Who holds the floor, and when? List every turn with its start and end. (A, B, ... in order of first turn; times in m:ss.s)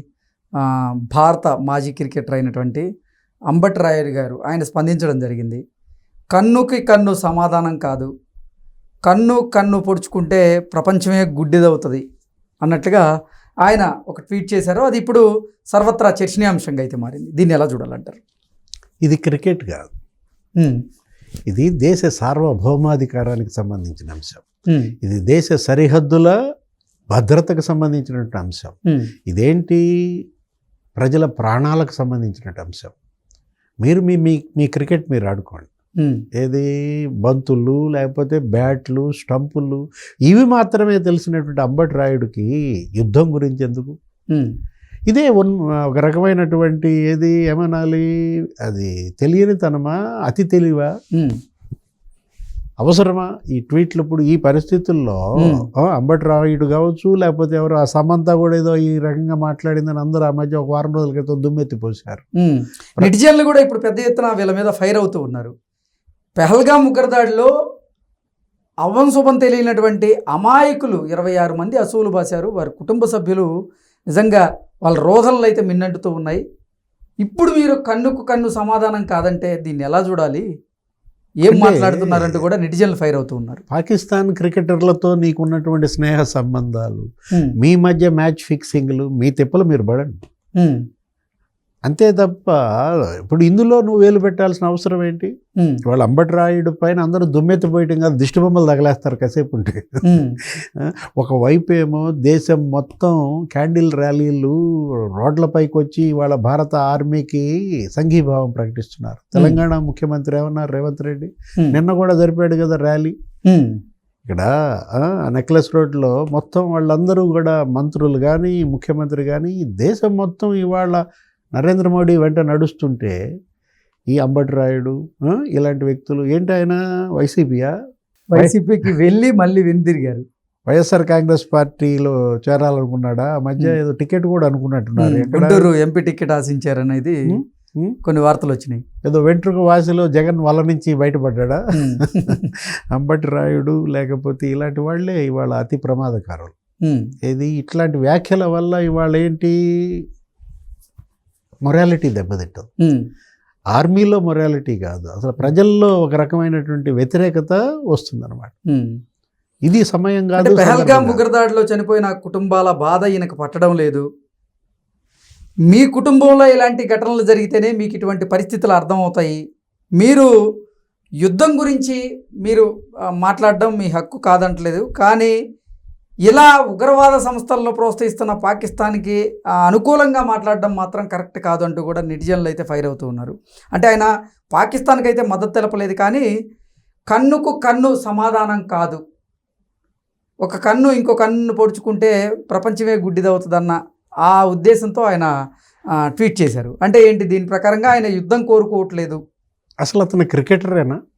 0:00.6-0:02.9 A
0:03.5-0:05.6 A
0:06.3-0:08.1 A
0:09.1-0:12.0 A
0:12.6-0:13.0 A
0:13.6-0:18.2 A
0:19.0-0:19.9 B
0:21.5-0:24.5 B
0:24.7-0:24.9 A
0:25.0-0:26.3 B
0:27.1-0:28.8 B
0:29.3-0:30.2 B
0:31.0-0:32.9 B
0:33.8-0:35.7 B
0:36.0-0:36.2 A
0:36.3-0:36.7 B
0:37.2-0:44.0 B
0:45.1-0:48.1 B
0:48.6-0:50.9 B
0:52.8-1:02.2 B
0:55.4-0:55.7 A
1:02.4-1:05.5 A
1:06.4-1:07.5 A
1:08.8-1:13.5 A
1:14.1-1:16.4 A
1:17.2-1:20.5 A
1:21.4-1:23.6 A
1:21.5-1:22.4 B
1:23.7-1:30.2 B
1:30.6-1:30.8 A
1:31.9-1:35.3 B
1:35.8-1:44.6 B
1:40.0-1:40.4 A
1:45.2-1:53.2 B
1:53.5-1:53.8 A
1:54.3-2:01.0 B
2:01.6-2:03.2 B
2:04.1-2:07.7 B
2:08.3-2:10.2 A
2:10.7-2:15.7 B
2:15.0-2:17.2 A
2:17.3-2:18.0 B
2:18.0-2:18.8 A
2:19.0-2:26.6 B
2:21.8-2:22.5 A
2:26.8-2:27.1 A
2:27.2-2:30.0 B
2:31.6-2:32.7 B
2:33.7-2:38.5 B
2:39.7-2:41.2 B
2:40.4-2:44.0 A
2:45.7-2:49.4 A
2:50.0-2:50.3 A
2:51.2-2:52.7 A
2:53.2-2:55.4 A
2:56.3-3:06.3 A
3:07.1-3:09.0 A
3:10.4-3:15.3 A
3:16.0-3:19.2 A
3:19.8-3:21.0 B